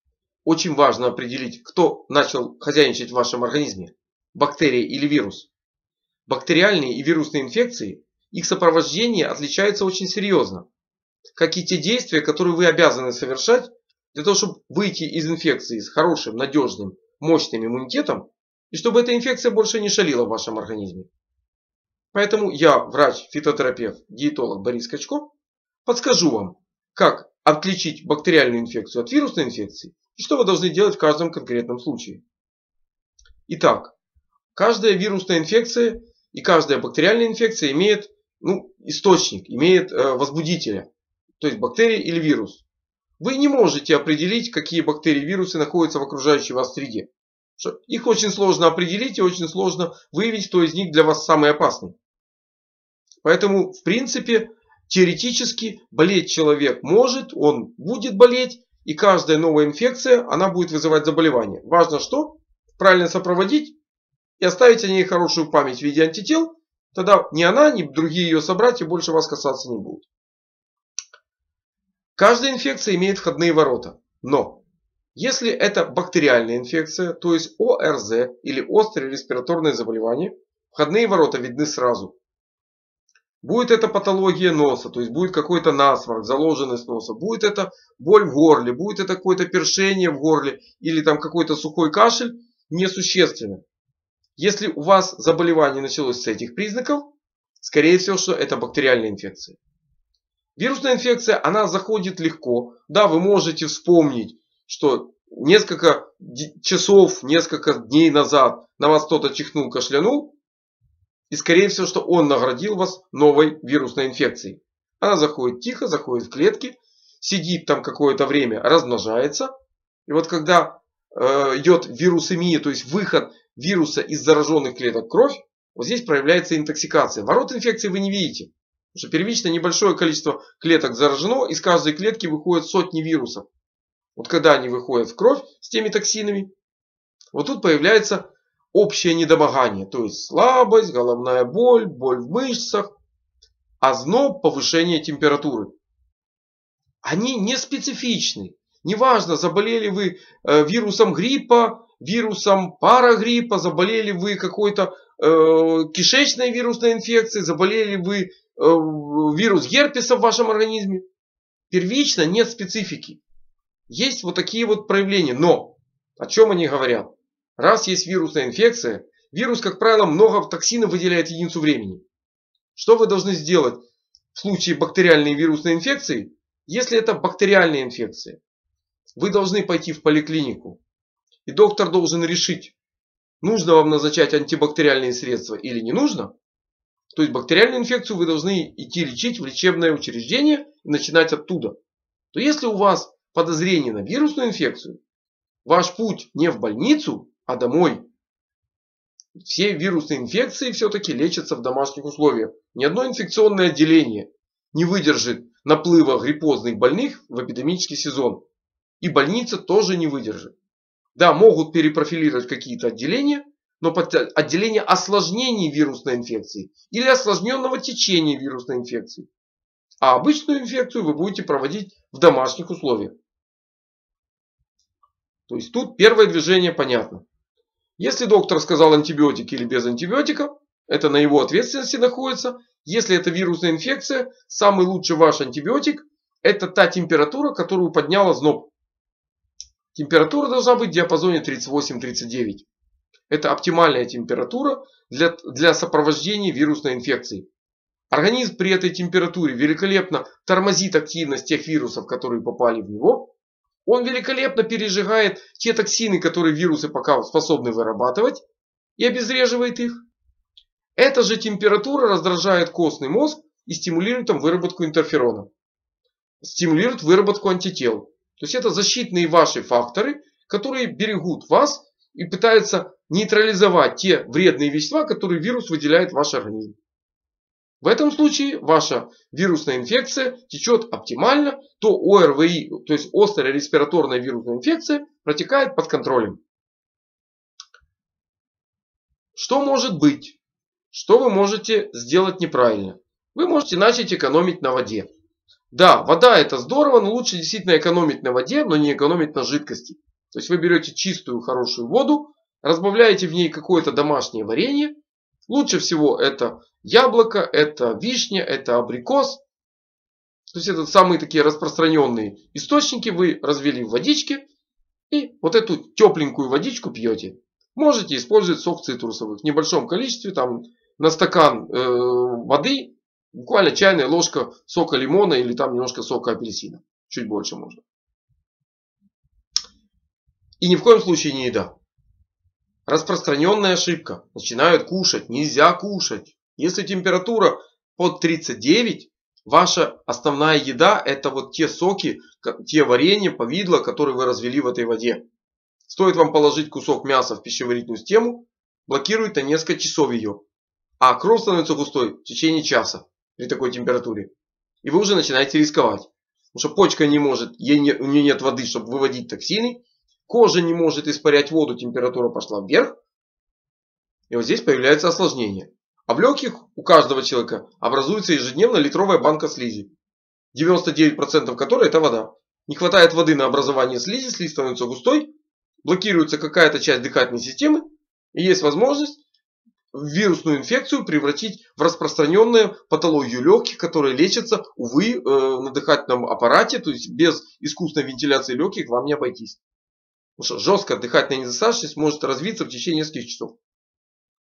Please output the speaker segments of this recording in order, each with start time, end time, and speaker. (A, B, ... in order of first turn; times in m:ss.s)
0:00.4-0:05.5 A
0:06.3-0:10.7 A
0:11.4-0:21.1 A
0:22.1-0:25.3 A
0:25.8-0:32.2 A
0:33.5-0:33.9 A
0:34.6-0:40.9 A
0:41.4-0:42.6 A
0:43.2-0:52.0 A
0:53.2-1:03.8 A
1:04.4-1:10.1 A
1:12.2-1:14.6 A
1:15.2-1:22.2 A
1:23.4-1:33.6 A
1:34.4-1:39.6 A
1:40.6-1:50.3 A
1:51.3-1:59.5 A
2:00.1-2:13.5 A
2:14.2-2:16.5 A
2:17.3-2:22.9 A
2:23.8-2:25.8 A
2:27.0-2:41.0 A
2:41.7-2:43.2 A
2:43.9-2:52.0 A
2:52.7-2:58.4 A
2:59.2-3:00.8 A
3:01.4-3:02.8 A
3:03.4-3:06.3 A
3:07.1-3:11.8 A
3:12.3-3:15.0 A
3:15.6-3:18.0 A
3:19.3-3:28.4 A
3:29.0-3:30.5 A
3:31.1-3:39.3 A
3:40.0-3:43.1 A
3:45.5-3:47.2 A
3:48.0-3:58.7 A
3:59.9-4:02.7 A
4:03.3-4:07.5 A
4:08.1-4:13.3 A
4:13.9-4:18.4 A
4:19.0-4:20.0 A
4:21.0-4:25.5 A
4:26.4-4:36.8 A
4:37.8-4:46.4 A
4:49.3-4:50.4 A
4:50.9-4:55.1 A
4:55.7-5:04.9 A
5:05.5-5:09.4 A
5:10.5-5:14.4 A
5:15.1-5:27.8 A
5:30.6-5:31.8 A
5:32.9-5:45.2 A
5:45.9-5:50.4 A
5:51.0-5:54.3 A
5:54.8-6:03.0 A
6:04.3-6:09.9 A
6:10.5-6:15.3 A
6:15.8-6:19.2 A
6:19.9-6:29.6 A
6:30.4-6:33.6 A